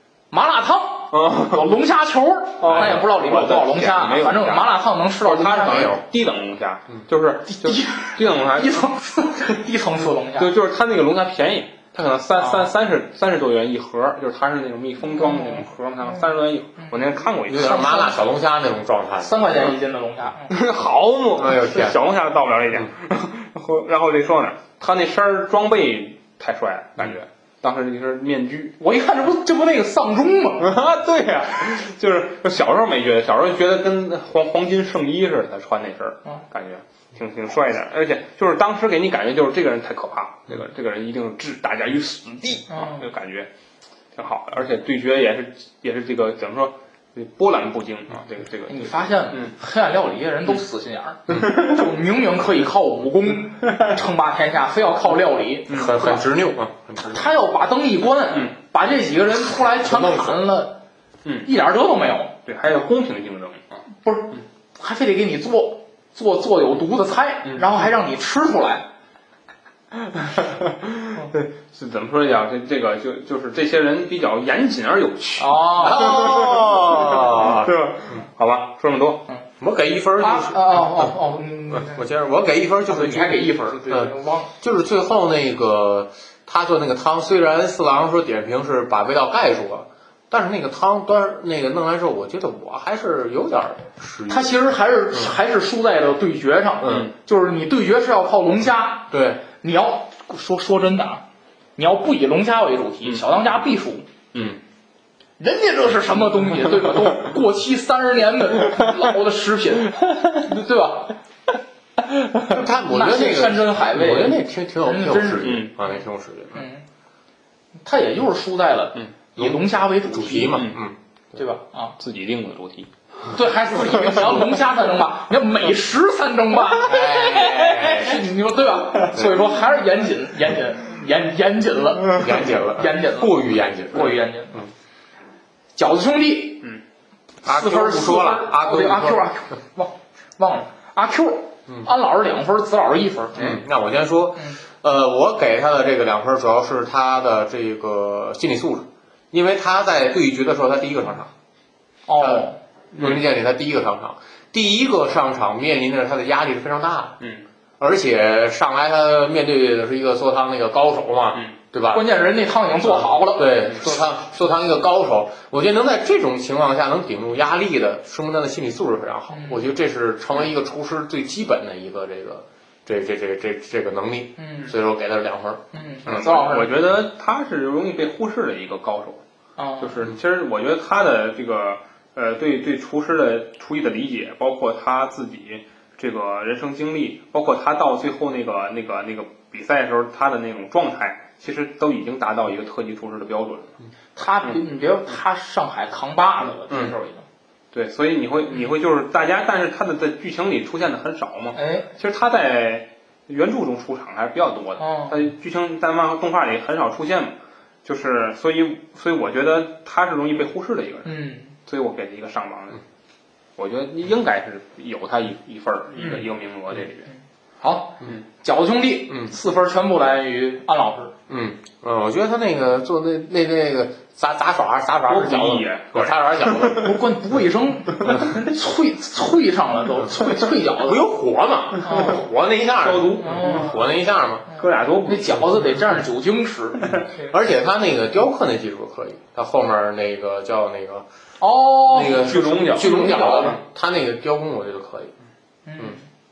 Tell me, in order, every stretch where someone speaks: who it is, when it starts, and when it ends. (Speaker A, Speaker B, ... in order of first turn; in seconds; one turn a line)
Speaker A: 0.3-6.0
Speaker B: 1.1-1.6
Speaker B: 2.6-8.9
Speaker A: 7.5-10.5
Speaker B: 10.4-17.8
Speaker A: 12.4-12.7
Speaker A: 15.1-16.3
Speaker A: 16.8-17.1
Speaker C: 17.4-19.5
Speaker A: 17.6-18.2
Speaker A: 19.2-20.5
Speaker B: 20.5-28.8
Speaker C: 21.4-22.0
Speaker A: 28.8-30.8
Speaker B: 30.6-43.5
Speaker A: 42.7-43.1
Speaker B: 44.1-49.5
Speaker A: 48.7-56.2
Speaker C: 55.7-57.3
Speaker A: 57.0-60.8
Speaker C: 59.4-60.4
Speaker A: 61.5-62.4
Speaker B: 62.5-63.8
Speaker A: 64.0-68.9
Speaker B: 67.5-67.8
Speaker B: 70.2-79.3
Speaker A: 75.4-76.4
Speaker C: 75.8-77.7
Speaker C: 79.6-81.1
Speaker A: 80.2-82.1
Speaker C: 81.7-94.5
Speaker A: 82.9-84.5
Speaker A: 94.3-101.2
Speaker C: 96.8-97.1
Speaker C: 99.1-99.5
Speaker A: 101.8-104.1
Speaker A: 105.4-111.2
Speaker C: 112.5-116.7
Speaker A: 112.9-115.7
Speaker B: 115.4-115.8
Speaker A: 116.5-116.8
Speaker A: 117.8-120.7
Speaker C: 119.4-121.0
Speaker B: 120.5-120.8
Speaker A: 121.4-122.0
Speaker B: 122.0-122.9
Speaker A: 123.3-134.7
Speaker C: 126.8-128.2
Speaker C: 132.1-134.7
Speaker A: 135.8-136.6
Speaker A: 137.4-143.6
Speaker C: 137.4-139.2
Speaker C: 143.4-151.3
Speaker A: 152.1-152.6
Speaker C: 152.2-157.2
Speaker C: 157.8-162.1
Speaker A: 161.9-163.8
Speaker C: 163.3-176.2
Speaker A: 169.3-169.7
Speaker A: 174.4-174.7
Speaker A: 175.7-176.7
Speaker B: 176.1-179.2
Speaker A: 179.6-180.0
Speaker B: 179.8-193.7
Speaker A: 194.2-197.3
Speaker B: 197.7-211.1
Speaker A: 201.6-201.9
Speaker A: 204.8-205.2
Speaker A: 211.1-211.6
Speaker B: 211.7-212.8
Speaker B: 213.6-217.1
Speaker A: 216.0-216.2
Speaker A: 217.6-221.1
Speaker C: 221.3-226.9
Speaker B: 225.1-226.9
Speaker A: 226.8-231.1
Speaker C: 230.8-234.5
Speaker A: 231.8-232.3
Speaker B: 232.8-233.8
Speaker A: 233.2-233.8
Speaker A: 234.5-237.3
Speaker B: 234.6-235.6
Speaker C: 237.3-241.1
Speaker A: 241.4-243.6
Speaker C: 241.9-245.1
Speaker B: 242.0-243.6
Speaker A: 245.7-246.1